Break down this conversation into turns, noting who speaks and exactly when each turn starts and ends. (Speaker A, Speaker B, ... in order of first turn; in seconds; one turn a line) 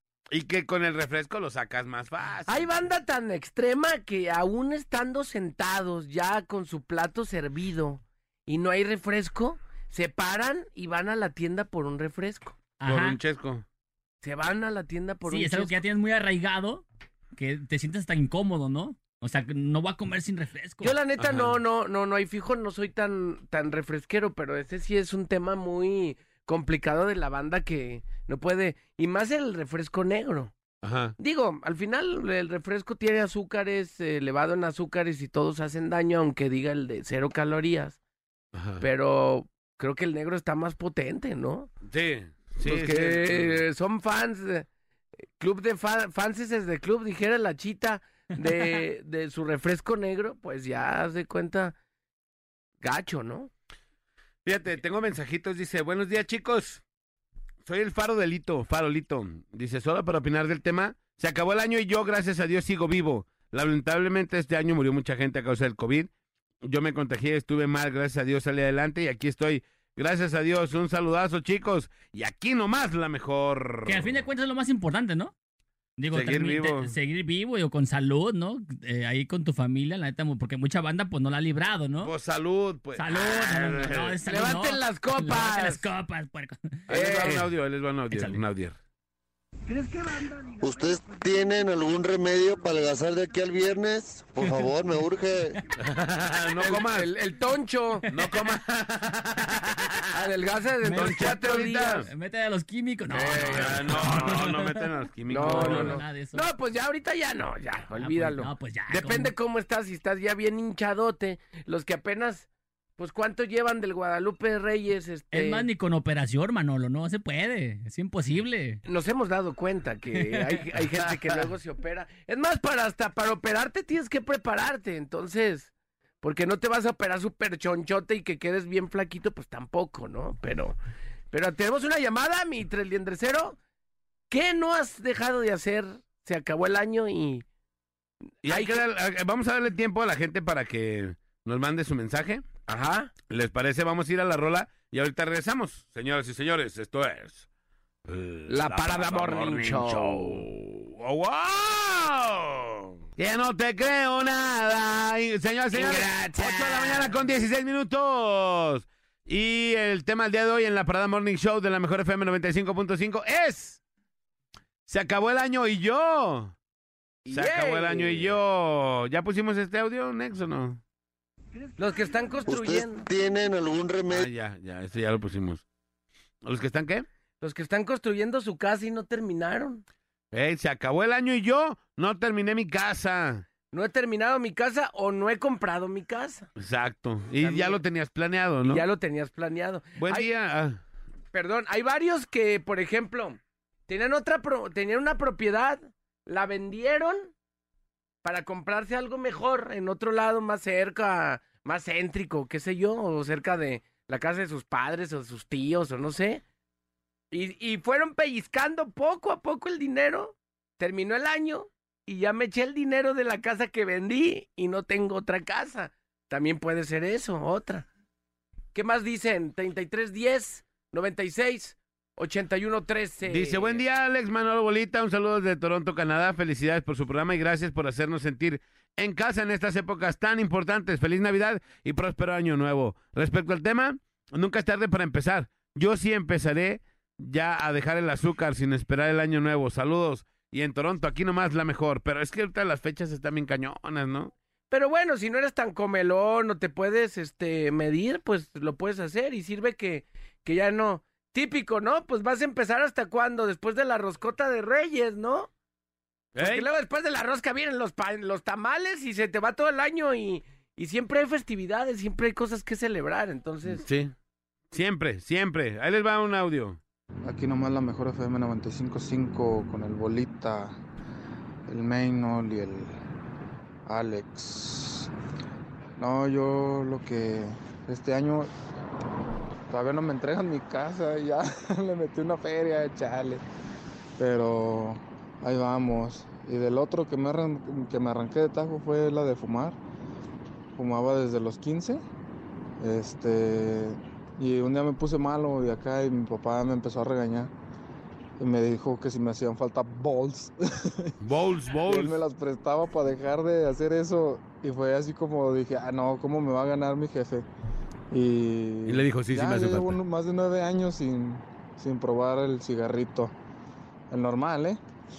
Speaker A: 0.3-2.7
Speaker B: 2.5-12.6
Speaker C: 12.8-13.2
Speaker A: 12.8-13.6
Speaker B: 14.2-15.8
Speaker C: 15.3-16.8
Speaker C: 17.4-20.9
Speaker B: 20.8-30.5
Speaker A: 21.2-21.6
Speaker A: 30.8-31.1
Speaker B: 31.2-38.0
Speaker A: 38.5-38.8
Speaker B: 38.8-41.7
Speaker A: 41.8-43.6
Speaker B: 42.6-44.7
Speaker B: 45.4-51.8
Speaker B: 52.8-53.5
Speaker A: 54.4-56.8
Speaker A: 57.6-66.1
Speaker A: 66.6-74.1
Speaker C: 73.8-75.3
Speaker C: 76.0-82.1
Speaker A: 76.1-76.9
Speaker A: 82.0-84.2
Speaker C: 83.0-86.8
Speaker B: 84.3-85.8
Speaker A: 86.9-88.7
Speaker B: 86.9-87.5
Speaker C: 88.1-88.4
Speaker B: 89.7-90.6
Speaker D: 90.6-95.6
Speaker A: 95.8-97.1
Speaker B: 96.6-98.0
Speaker C: 98.1-98.3
Speaker A: 98.1-100.0
Speaker B: 100.1-102.1
Speaker A: 100.9-102.1
Speaker C: 100.9-106.5
Speaker B: 103.1-104.3
Speaker A: 103.4-106.0
Speaker B: 105.3-112.5
Speaker C: 107.9-109.3
Speaker B: 113.0-115.7
Speaker C: 115.3-118.8
Speaker B: 118.8-125.7
Speaker C: 120.2-120.8
Speaker B: 126.2-130.8
Speaker B: 131.3-133.6
Speaker B: 134.3-137.4
Speaker B: 138.4-138.8
Speaker A: 138.4-142.4
Speaker B: 142.7-143.1
Speaker A: 143.3-147.4
Speaker A: 148.1-163.8
Speaker B: 148.5-150.4
Speaker B: 155.7-157.1
Speaker A: 164.9-166.5
Speaker B: 167.2-168.4
Speaker A: 167.3-170.8
Speaker B: 171.8-173.1
Speaker D: 172.5-174.3
Speaker A: 174.1-175.6
Speaker A: 176.4-177.1
Speaker B: 177.4-179.8
Speaker A: 180.3-183.4
Speaker B: 183.7-186.5
Speaker A: 186.6-188.8
Speaker B: 187.4-187.8
Speaker B: 188.7-190.3
Speaker A: 190.0-190.8
Speaker B: 191.3-197.3
Speaker B: 198.2-206.4
Speaker B: 207.3-217.9
Speaker B: 218.7-223.8
Speaker A: 223.2-244.3
Speaker B: 244.7-255.5
Speaker A: 256.4-256.7
Speaker B: 256.4-263.8
Speaker A: 263.7-264.1
Speaker A: 264.7-266.8
Speaker E: 267.2-270.8
Speaker E: 271.7-272.9
Speaker E: 273.9-275.1
Speaker E: 276.0-278.5
Speaker E: 279.7-283.4
Speaker E: 284.2-289.8
Speaker E: 290.7-292.0
Speaker E: 292.8-297.5
Speaker E: 298.4-301.2
Speaker A: 301.2-302.2
Speaker E: 301.9-307.4
Speaker E: 308.1-313.3
Speaker A: 308.9-310.0
Speaker E: 314.1-314.8